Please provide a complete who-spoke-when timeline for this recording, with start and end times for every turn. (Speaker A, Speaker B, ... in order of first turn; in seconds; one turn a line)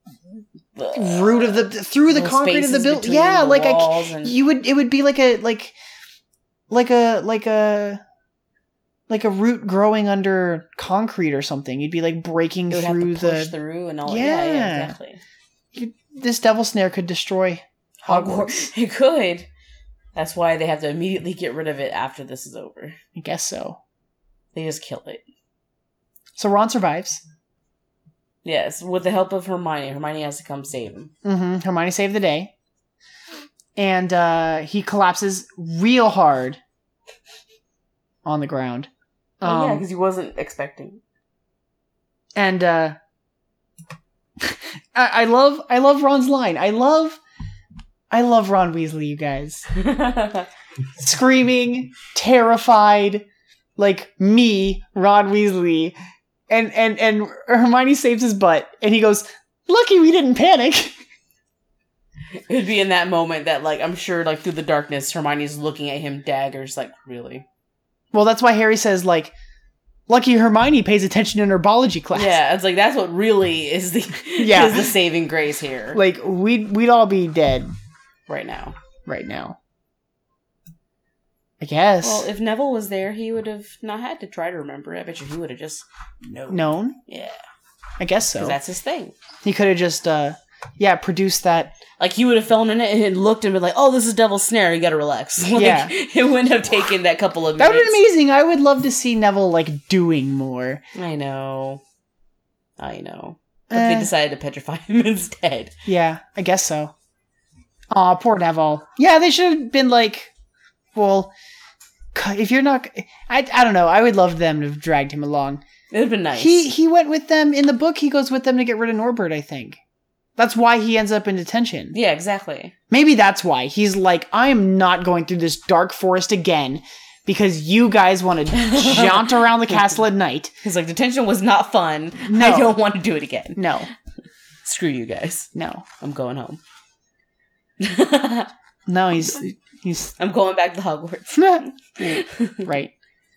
Speaker A: 0.8-4.4
Speaker B: 0.9-5.7
Speaker B: 6.7-8.0
Speaker B: 9.1-13.5
Speaker A: 12.7-15.2
Speaker B: 14.1-14.9
Speaker B: 15.7-18.7
Speaker A: 18.0-19.5
Speaker A: 20.2-23.0
Speaker B: 23.2-23.8
Speaker A: 24.6-25.2
Speaker B: 26.4-27.2
Speaker A: 28.4-31.1
Speaker B: 31.2-32.5
Speaker B: 33.8-36.6
Speaker B: 38.2-38.9
Speaker B: 39.4-39.8
Speaker A: 39.4-41.0
Speaker B: 42.4-43.0
Speaker B: 44.4-47.2
Speaker B: 48.1-49.7
Speaker A: 49.7-50.5
Speaker B: 51.0-53.3
Speaker B: 53.8-56.0
Speaker B: 56.5-61.0
Speaker A: 62.5-67.5
Speaker B: 68.1-69.3
Speaker B: 70.1-72.4
Speaker A: 72.1-76.0
Speaker B: 74.4-74.9
Speaker B: 75.9-77.7
Speaker A: 78.3-78.8
Speaker B: 79.1-79.6
Speaker B: 81.6-82.3
Speaker A: 82.0-87.4
Speaker B: 86.5-87.0
Speaker B: 88.0-88.6
Speaker A: 88.4-89.2
Speaker B: 89.4-91.8
Speaker A: 92.0-98.0
Speaker B: 95.5-95.9
Speaker B: 97.6-100.8
Speaker A: 101.0-101.8
Speaker A: 102.8-105.8
Speaker B: 103.7-104.1
Speaker B: 105.9-106.9
Speaker B: 107.9-110.3
Speaker B: 111.0-111.3
Speaker B: 112.1-115.6
Speaker A: 115.9-116.7
Speaker B: 116.4-119.8
Speaker B: 120.4-122.0
Speaker A: 121.9-122.7
Speaker B: 122.9-130.5
Speaker A: 128.5-129.8
Speaker A: 130.6-133.8
Speaker B: 132.3-132.8
Speaker B: 133.6-133.9
Speaker A: 134.6-136.6
Speaker B: 135.6-135.8
Speaker A: 137.8-138.5
Speaker B: 138.9-140.1
Speaker A: 140.2-142.7
Speaker B: 141.3-142.9